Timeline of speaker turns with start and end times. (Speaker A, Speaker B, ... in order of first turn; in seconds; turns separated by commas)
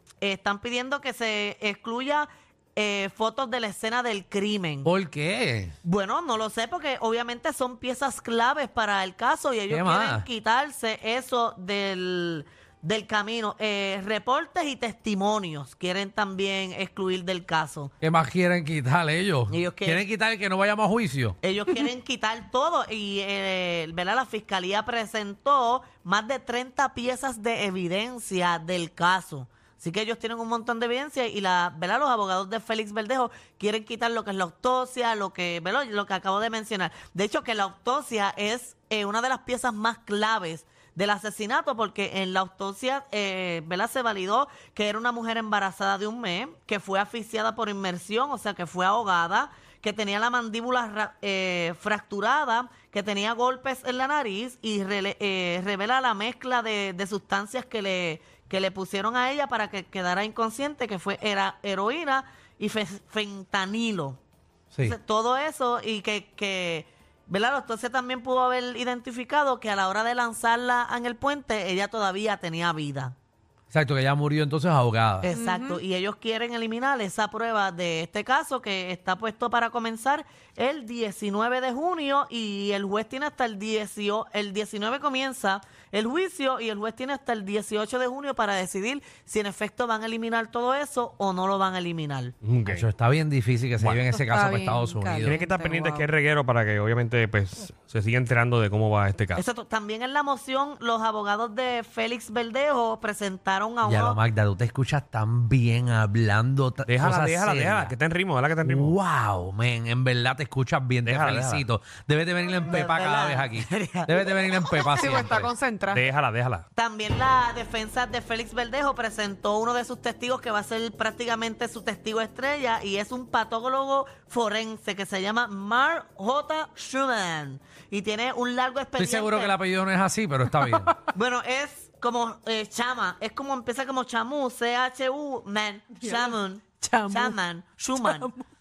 Speaker A: 0.2-4.9, Speaker B: 4.8-5.8, Speaker A: 5.8-17.9, Speaker B: 9.7-10.3, Speaker B: 18.0-21.4, Speaker A: 19.5-20.1, Speaker A: 21.4-64.2, Speaker A: 64.8-73.1, Speaker B: 73.7-75.3, Speaker A: 75.2-92.3, Speaker C: 75.3-75.8, Speaker D: 92.4-92.8, Speaker B: 92.7-95.4, Speaker D: 93.8-94.0, Speaker C: 94.2-96.1, Speaker D: 95.2-99.4, Speaker A: 99.4-104.2, Speaker B: 103.8-107.9, Speaker D: 106.9-109.0, Speaker B: 108.6-115.5, Speaker D: 111.0-111.7, Speaker A: 112.6-115.1, Speaker C: 114.9-116.0, Speaker D: 115.9-116.7, Speaker A: 116.8-129.6, Speaker B: 129.0-130.9, Speaker A: 131.1-138.3, Speaker C: 136.0-137.4, Speaker C: 138.0-138.5